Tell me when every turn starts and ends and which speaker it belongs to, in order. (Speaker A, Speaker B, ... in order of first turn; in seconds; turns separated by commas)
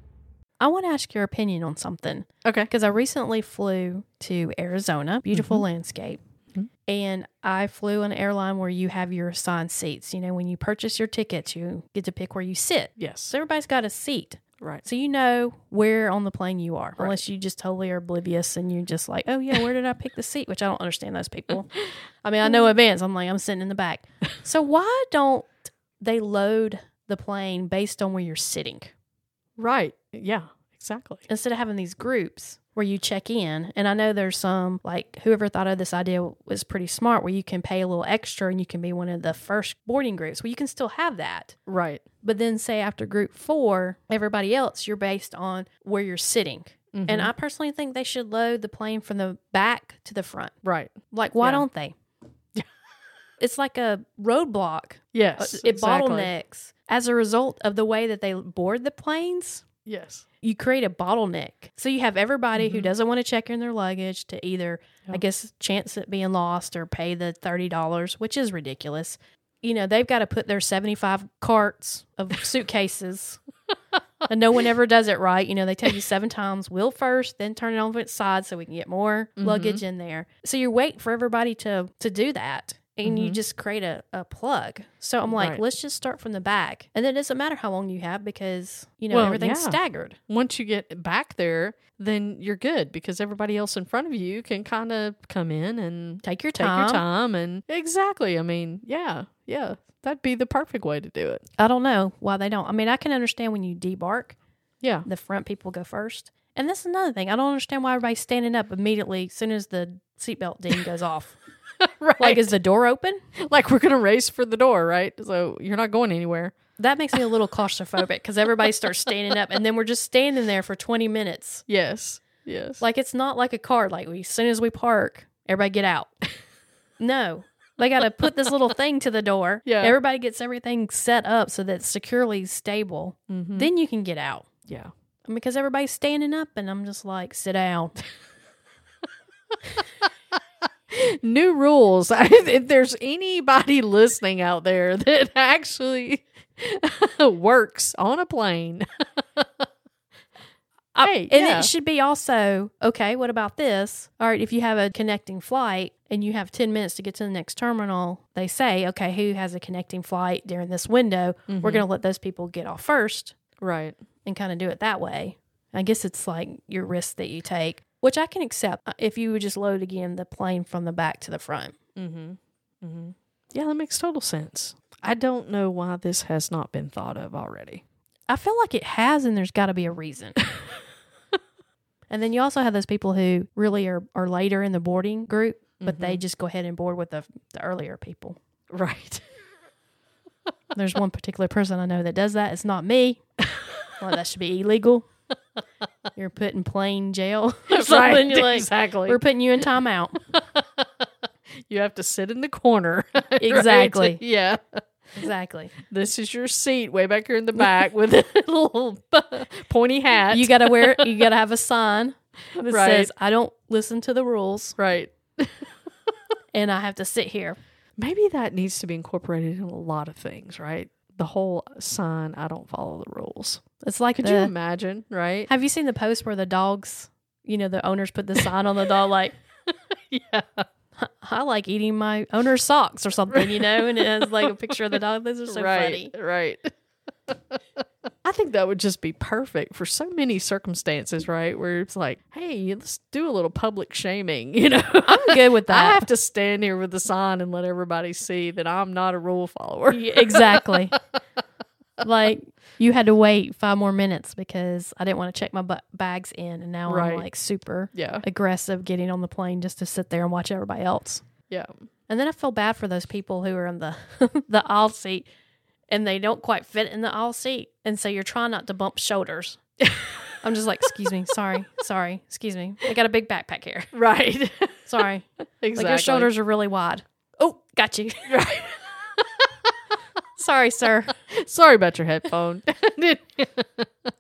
Speaker A: 0.6-6.2, Speaker B: 5.3-5.6, Speaker A: 6.9-21.7, Speaker B: 13.0-13.3, Speaker A: 22.2-28.9, Speaker B: 29.6-31.2, Speaker A: 31.3-41.6, Speaker B: 41.7-42.0, Speaker A: 42.2-50.5, Speaker B: 46.9-47.3, Speaker B: 50.6-51.7, Speaker A: 51.1-52.0, Speaker A: 53.4-59.6, Speaker B: 55.1-56.3, Speaker B: 59.9-60.2, Speaker A: 60.4-73.4, Speaker B: 62.5-62.9, Speaker A: 74.3-90.2, Speaker B: 79.4-79.8, Speaker B: 83.0-83.4, Speaker B: 85.3-85.6, Speaker B: 89.1-101.4, Speaker A: 96.2-97.0, Speaker A: 101.6-104.4, Speaker B: 104.8-105.1, Speaker A: 105.1-111.4, Speaker B: 111.9-112.5, Speaker A: 112.2-113.2, Speaker B: 113.5-116.5, Speaker A: 116.8-121.6, Speaker B: 121.7-122.8, Speaker A: 122.8-126.1, Speaker A: 127.0-134.5, Speaker B: 129.7-129.9, Speaker B: 133.3-133.7, Speaker A: 135.3-138.0, Speaker B: 140.9-148.9, Speaker B: 149.4-149.7, Speaker A: 150.9-163.3, Speaker B: 151.0-151.7, Speaker B: 161.5-161.9, Speaker B: 163.6-164.0, Speaker A: 164.3-171.8, Speaker B: 172.0-177.8, Speaker A: 178.3-180.4, Speaker A: 182.1-188.4, Speaker B: 185.8-186.2, Speaker B: 188.7-189.2, Speaker A: 190.8-193.2, Speaker A: 194.0-195.1, Speaker A: 196.2-200.2, Speaker B: 197.7-199.2, Speaker B: 200.5-200.9, Speaker B: 201.7-205.2, Speaker A: 203.4-204.2, Speaker A: 205.2-205.7, Speaker B: 205.8-211.2, Speaker A: 210.3-214.8, Speaker B: 212.6-213.1, Speaker B: 214.8-215.7, Speaker A: 216.5-217.6, Speaker B: 218.0-223.6, Speaker A: 223.8-224.5, Speaker B: 224.2-225.5, Speaker A: 225.5-229.3, Speaker B: 230.1-230.7, Speaker A: 231.0-236.1, Speaker B: 233.3-234.5, Speaker B: 235.5-236.7, Speaker B: 238.2-250.9, Speaker A: 245.0-246.1, Speaker A: 249.9-250.9, Speaker A: 252.0-261.2, Speaker B: 256.9-257.3, Speaker B: 257.9-258.2, Speaker A: 262.1-265.3, Speaker A: 265.9-269.6, Speaker A: 270.4-273.9, Speaker B: 273.9-274.9, Speaker A: 274.9-278.4, Speaker B: 275.6-276.3, Speaker B: 278.3-279.2, Speaker A: 280.4-281.1, Speaker B: 281.3-283.9